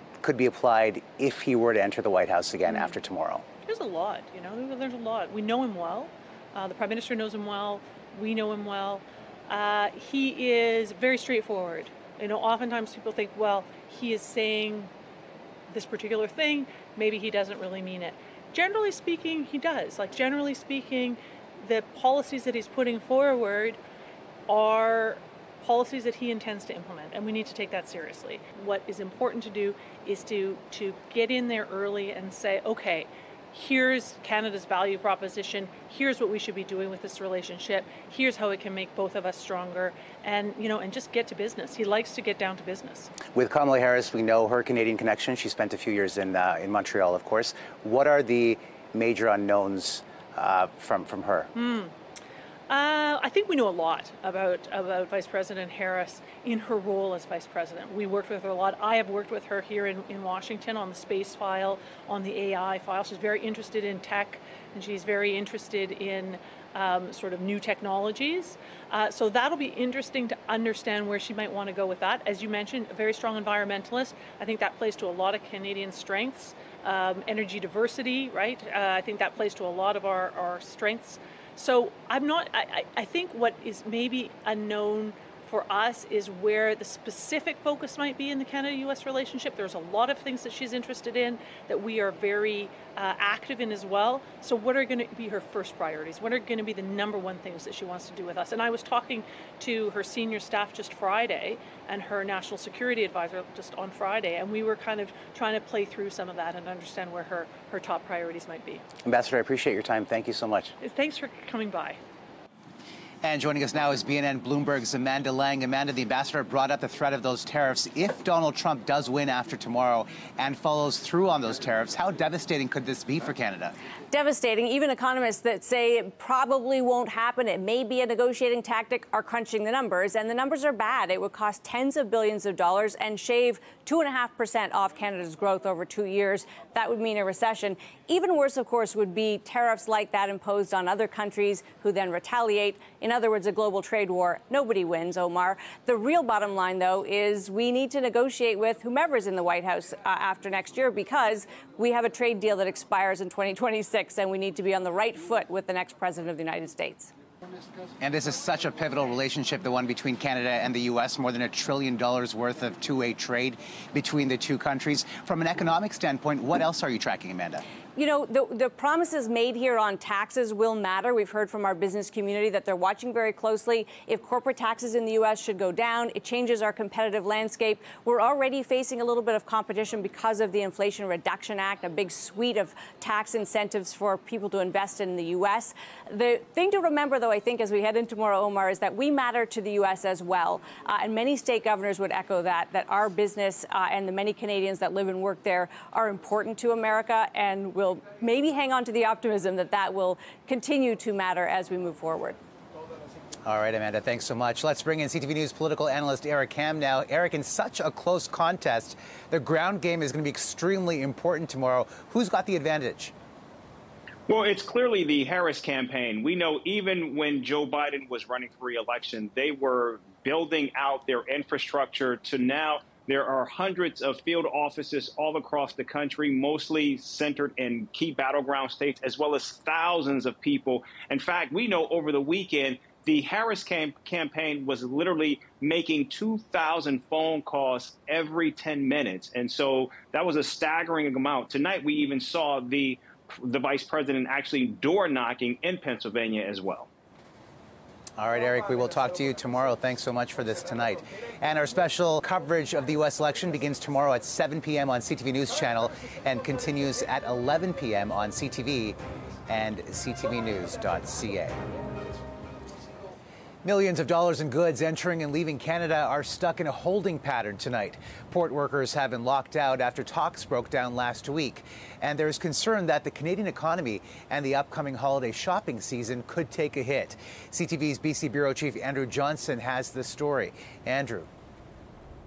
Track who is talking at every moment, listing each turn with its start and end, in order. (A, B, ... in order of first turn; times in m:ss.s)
0:00.2-0:03.4 A
0:03.6-0:14.9 B
0:15.7-0:23.8 B
0:24.5-0:43.1 B
0:43.3-0:51.5 A
0:51.5-0:51.9 B
0:52.7-1:48.8 B
1:49.0-1:50.7 A
1:50.8-1:52.0 B
1:53.2-2:03.7 A
2:04.1-2:37.1 C
2:38.0-2:47.6 A
2:47.9-3:22.4 C
3:23.4-3:33.1 A
3:34.3-4:06.9 D
4:08.2-4:21.6 A
4:23.6-4:41.3 A